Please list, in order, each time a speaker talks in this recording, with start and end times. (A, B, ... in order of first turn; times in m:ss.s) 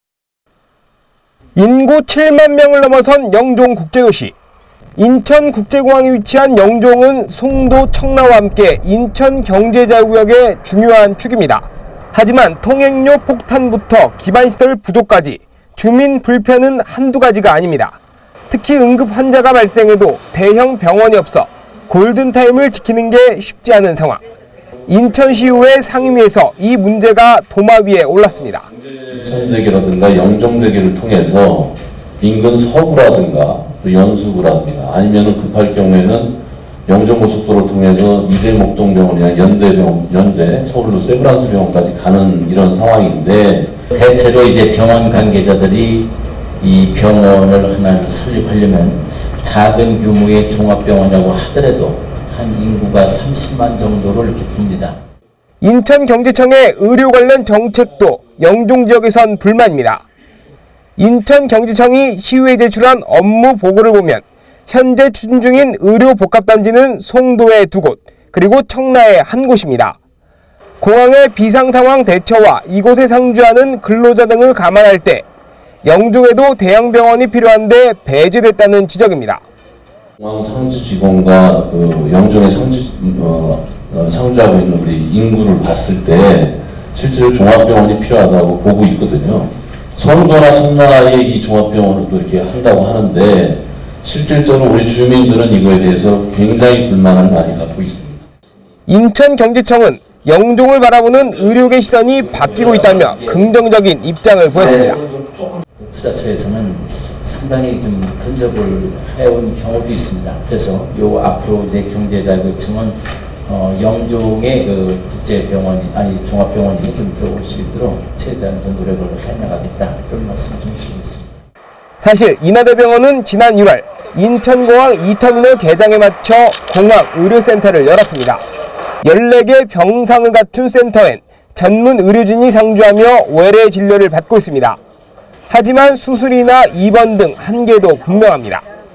0:01.6-0:04.3 A
0:05.0-0:18.0 A
0:18.5-0:24.2 A
0:24.9-0:28.7 A
0:28.9-0:43.7 B
0:43.9-0:46.1 C
0:46.6-0:55.0 C
0:55.6-1:00.0 A
1:01.0-1:10.0 A
1:10.8-1:15.3 A
1:15.8-1:19.4 A
1:20.2-1:38.3 B
1:38.9-1:45.0 A
1:41.4-1:43.5 C
1:45.8-2:01.4 C
2:02.0-2:08.4 A
2:09.0-2:14.8 A
2:15.5-2:18.6 A